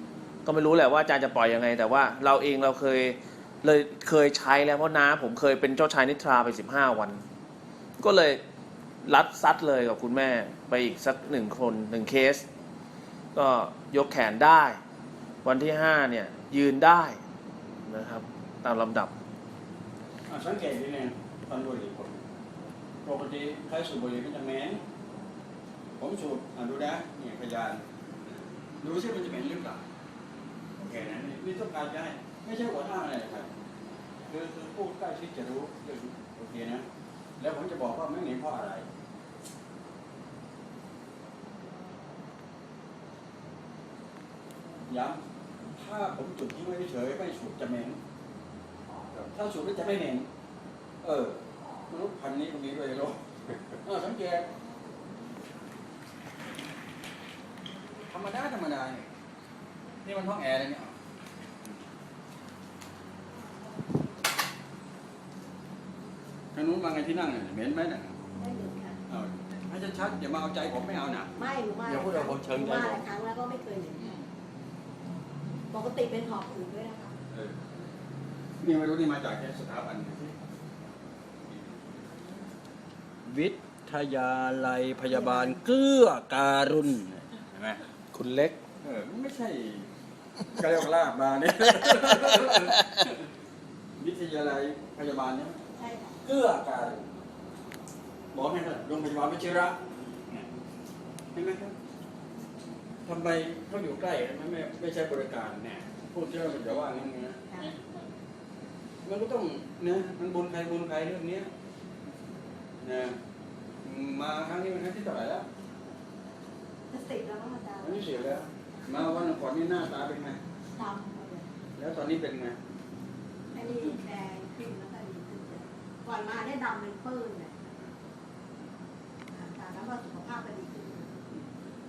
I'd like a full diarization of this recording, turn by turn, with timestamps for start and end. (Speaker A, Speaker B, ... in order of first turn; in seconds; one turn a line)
Speaker A: 0.4-7.2
Speaker A: 8.0-8.4
Speaker A: 9.0-12.4
Speaker A: 13.3-14.8
Speaker A: 15.4-17.2
Speaker A: 17.9-19.1
Speaker B: 20.3-22.3
Speaker B: 23.0-24.8
Speaker B: 26.0-27.8
Speaker B: 28.8-29.9
Speaker B: 30.8-33.5
Speaker B: 34.3-36.9
Speaker B: 37.4-38.9
Speaker B: 44.9-45.2
Speaker B: 45.7-48.0
Speaker B: 49.3-50.3
Speaker B: 51.0-53.2
Speaker B: 53.8-54.5
Speaker B: 58.1-59.1
Speaker B: 60.0-61.0
Speaker B: 66.5-68.2
Speaker C: 68.4-69.0
Speaker B: 69.1-73.0
Speaker C: 71.4-74.0
Speaker B: 74.0-74.2
Speaker C: 75.7-77.1
Speaker B: 77.3-77.6
Speaker B: 78.6-80.4
Speaker B: 81.5-82.0
Speaker B: 83.2-87.8
Speaker A: 88.1-88.6
Speaker B: 88.8-89.9
Speaker B: 90.5-93.2
Speaker B: 94.0-95.6
Speaker C: 95.7-96.2
Speaker B: 96.2-97.1
Speaker B: 98.3-100.5
Speaker B: 101.3-101.7
Speaker B: 103.0-107.4
Speaker C: 107.5-107.8
Speaker B: 109.0-111.5
Speaker B: 112.8-113.2
Speaker B: 113.8-115.5
Speaker C: 116.9-119.2
Speaker B: 117.8-120.4
Speaker C: 120.7-121.5
Speaker B: 121.8-122.6
Speaker C: 123.5-127.7
Speaker C: 129.3-131.1